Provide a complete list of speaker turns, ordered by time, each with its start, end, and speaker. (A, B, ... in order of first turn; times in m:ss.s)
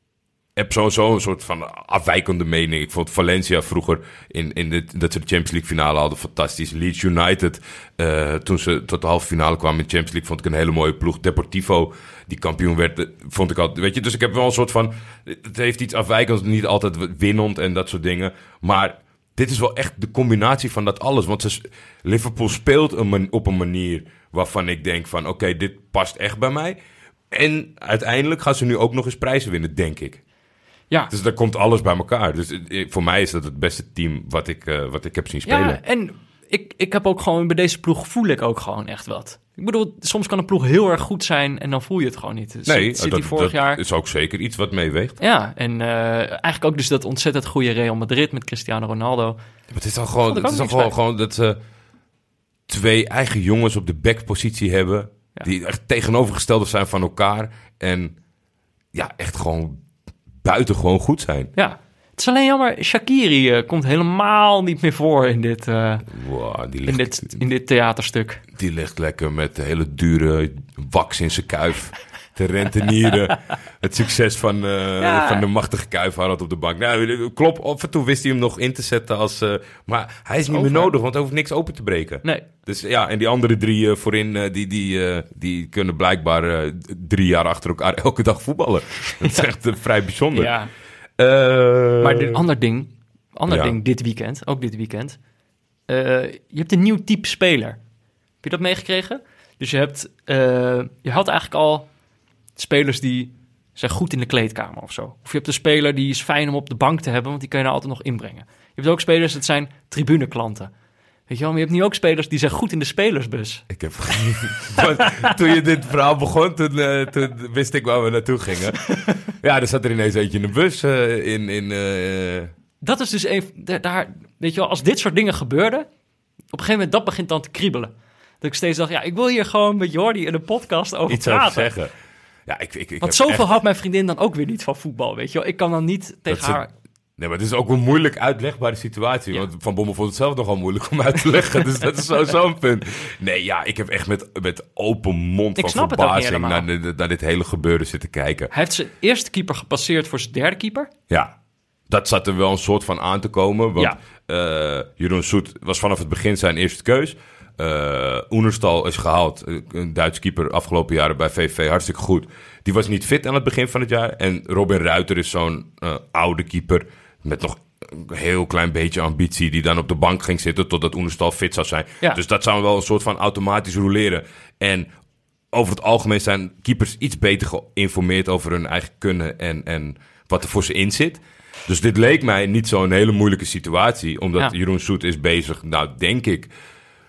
0:00.6-0:26.8 A
0:27.3-0:30.2 A
0:31.1-0:35.8 A
0:35.5-0:43.8 B
0:42.7-0:45.2 A
0:45.2-0:49.4 B
0:49.7-0:51.6 A
0:50.3-0:50.9 B
0:52.7-0:58.2 A
0:58.9-0:59.8 A
1:00.4-1:01.5 A
1:01.6-1:06.1 B
1:06.1-1:07.4 A
1:06.9-1:08.4 B
1:08.5-1:30.5 A
1:15.0-1:15.4 B
1:20.5-1:20.9 B
1:29.2-1:29.4 B
1:30.4-1:30.7 B
1:31.2-1:32.4 A
1:32.0-1:35.2 B
1:33.5-1:33.8 A
1:35.9-1:37.8 B
1:38.4-1:41.9 B
1:42.6-1:50.7 B
1:51.3-1:53.7 B
1:53.7-2:02.5 A
1:54.8-1:55.3 B
2:02.8-2:05.9 B
2:06.5-2:11.7 B
2:11.1-2:11.9 A
2:12.5-2:13.5 A
2:13.0-2:16.7 B
2:16.3-2:16.6 A
2:17.2-2:28.5 A
2:25.6-2:26.7 B
2:28.5-2:30.9 B
2:31.1-2:31.3 A
2:31.9-2:54.9 A
2:55.5-3:06.5 A